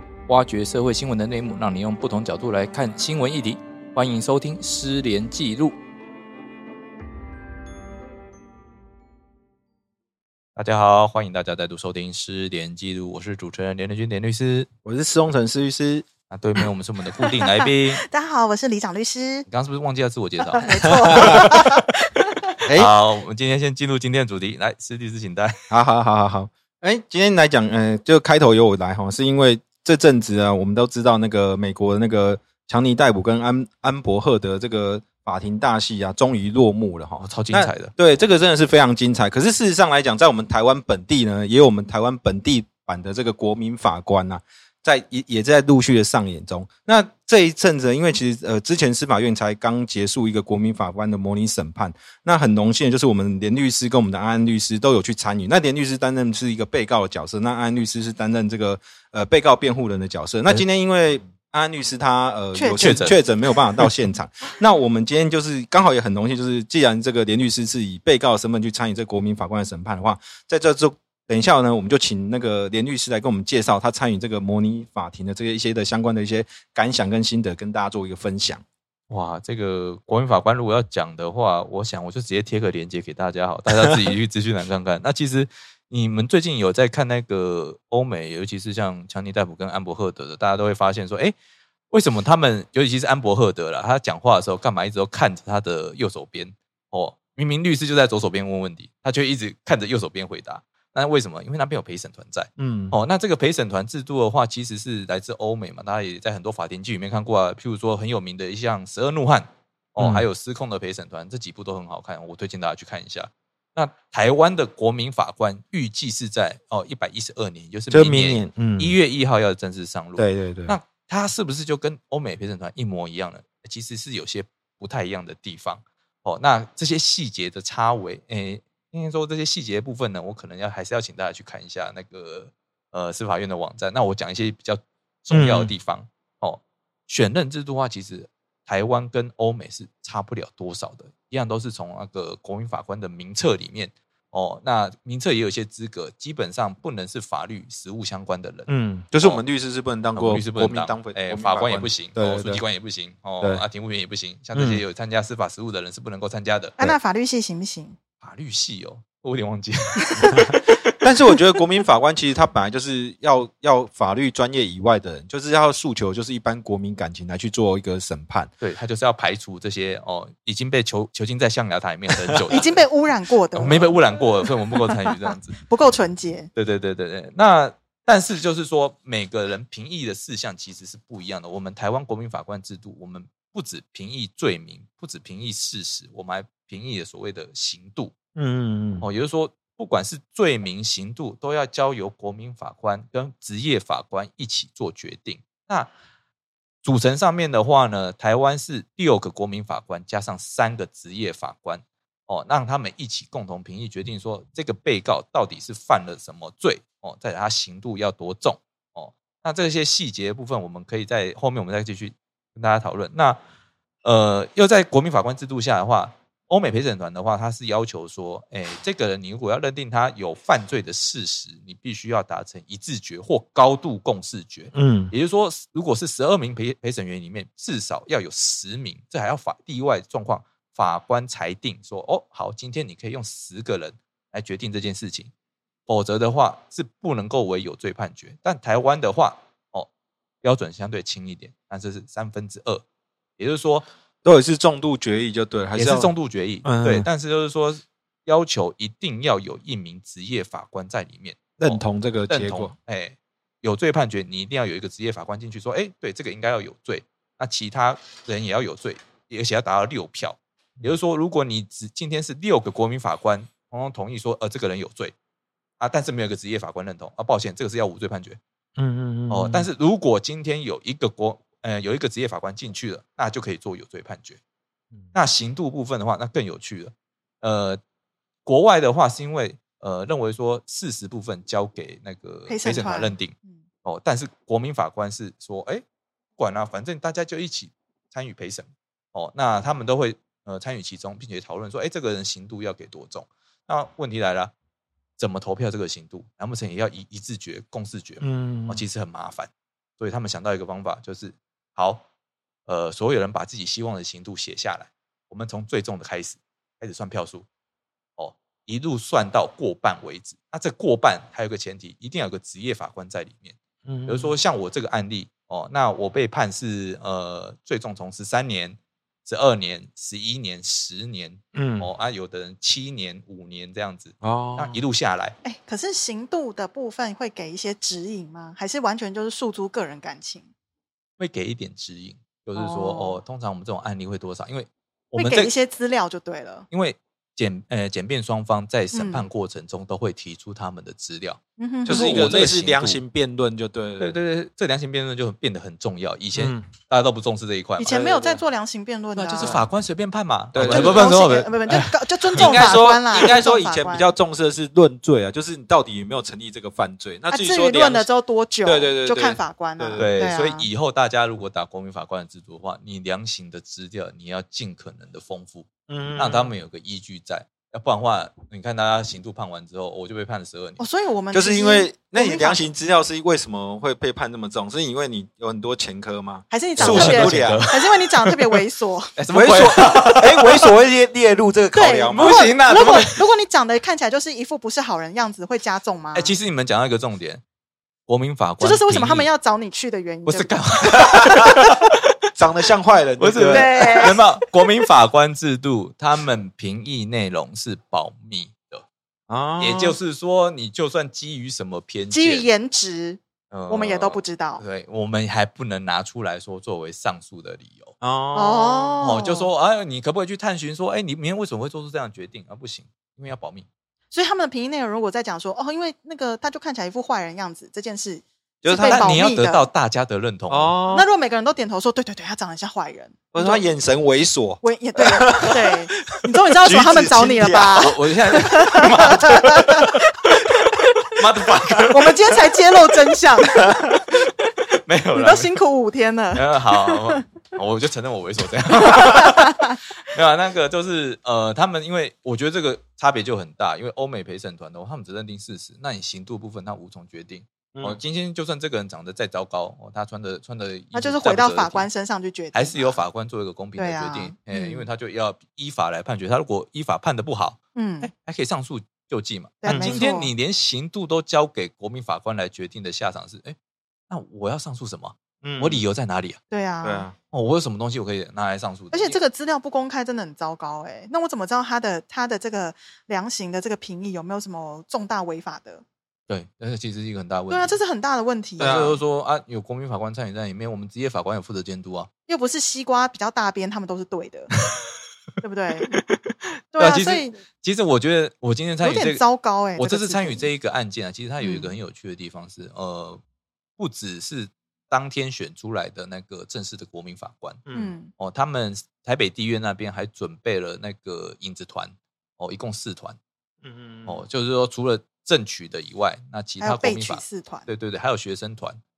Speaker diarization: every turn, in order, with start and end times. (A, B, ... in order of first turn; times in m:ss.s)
0:00.3-0:05.8 A
0:10.5-0:14.7 A
0:14.8-0:16.1 B
0:16.3-0:18.0 A
0:17.2-0:19.5 C
0:19.5-0:21.8 A
0:20.5-0:22.5 C
0:20.8-0:21.6 B
0:22.6-0:22.9 B
0:22.7-0:25.5 A
0:25.7-1:18.6 B
0:37.2-0:37.9 A
1:02.5-1:03.3 C
1:02.8-1:03.2 A
1:19.1-1:31.3 A
1:31.9-2:29.4 A
1:42.6-1:43.0 B
1:50.0-1:50.2 B
1:57.9-1:58.9 B
2:00.2-2:00.8 B
2:15.3-2:15.7 B
2:28.7-2:32.6 B
2:30.1-2:36.8 A
2:34.5-2:34.8 B
2:36.8-2:38.0 C
2:38.2-2:40.9 A
2:40.1-2:40.4 C
2:41.0-2:48.5 B
2:48.6-2:52.8 A
2:52.1-2:52.4 B
2:52.5-2:56.5 C
2:53.5-2:55.6 A
2:56.5-3:08.1 A
3:08.4-3:09.0 B
3:09.0-3:15.9 A
3:16.8-3:33.4 A
3:34.0-3:55.3 A
3:44.7-3:45.1 B
3:55.9-3:59.9 A
4:00.4-4:02.8 A
4:03.4-4:03.9 A
4:04.2-4:06.1 B
4:05.8-4:25.1 A
4:06.6-4:07.1 B
4:11.6-4:12.7 B
4:25.8-4:28.4 A
4:28.8-4:29.7 B
4:29.3-4:34.4 A
4:35.1-4:37.8 A
4:38.4-4:45.8 A
4:42.5-4:43.6 C
4:46.4-4:54.5 A
4:55.2-5:02.0 A
4:58.2-4:58.8 B
5:02.6-5:07.4 A
5:08.2-5:25.4 A
5:13.8-5:14.3 B
5:21.5-5:21.9 B
5:24.2-5:24.8 B
5:25.4-5:30.5 C
5:31.2-5:35.5 A
5:32.5-5:33.2 C
5:35.2-5:36.7 C
5:36.7-5:43.0 A
5:38.9-5:39.3 C
5:41.6-5:42.1 C
5:41.8-5:44.1 B
5:44.0-5:47.9 A
5:46.3-5:46.7 B
5:47.8-5:49.6 C
5:47.8-5:48.4 B
5:49.2-5:52.9 A
5:49.4-5:49.6 B
5:50.5-5:51.3 B
5:50.6-5:54.1 C
5:52.3-5:58.1 B
5:57.3-6:00.7 C
5:58.6-6:00.1 B
6:00.0-6:10.8 A
6:05.9-6:06.5 B
6:10.8-6:12.6 C
6:11.3-6:17.6 B
6:16.5-6:19.1 C
6:16.8-6:18.5 A
6:19.2-6:20.7 A
6:19.3-6:22.5 B
6:21.7-6:26.4 C
6:22.1-6:23.2 A
6:26.1-6:27.4 A
6:28.1-6:29.3 A
6:28.6-6:31.3 C
6:30.2-6:32.0 A
6:30.9-6:31.6 B
6:32.4-6:34.2 B
6:33.2-6:38.8 A
6:33.5-6:34.2 C
6:39.3-6:40.0 B
6:39.6-6:42.5 A
6:42.1-6:44.6 C
6:43.5-6:48.0 A
6:48.0-6:49.0 B
6:48.3-6:49.5 C
6:49.0-6:53.7 A
6:54.1-6:59.6 C
6:58.6-6:59.2 B
6:58.8-7:00.7 A
7:00.5-7:01.0 B
7:00.9-7:03.6 C
7:03.3-7:05.8 B
7:04.6-7:10.2 C
7:06.6-7:07.9 B
7:07.8-7:12.4 A
7:09.1-7:09.4 B
7:10.7-7:11.0 C
7:11.9-7:14.0 C
7:14.1-7:15.5 A
7:15.1-7:17.2 C
7:16.3-7:31.9 A
7:18.8-7:19.8 C
7:27.7-7:28.0 B
7:30.9-7:33.0 C
7:32.5-7:43.6 A
7:33.8-7:34.9 C
7:37.7-7:38.1 C
7:39.6-7:40.3 C
7:39.6-7:40.0 B
7:44.1-7:46.4 A
7:45.4-7:45.8 B
7:46.5-7:47.1 C
7:46.8-7:47.1 B
7:47.3-7:49.2 A
7:48.9-7:55.8 C
7:56.3-7:57.8 A
7:57.5-7:58.9 C
7:58.6-7:59.0 B
7:58.6-8:02.1 A
8:02.3-8:04.5 C
8:05.4-8:05.9 C
8:05.9-8:09.2 A
8:06.7-8:07.4 C
8:08.8-8:10.5 C
8:09.8-8:13.2 A
8:11.4-8:11.7 C
8:13.8-8:17.6 A
8:17.7-8:17.9 B
8:17.7-8:18.1 C
8:18.2-8:23.2 A
8:23.6-8:24.2 B
8:24.0-8:28.8 A
8:26.6-8:27.7 C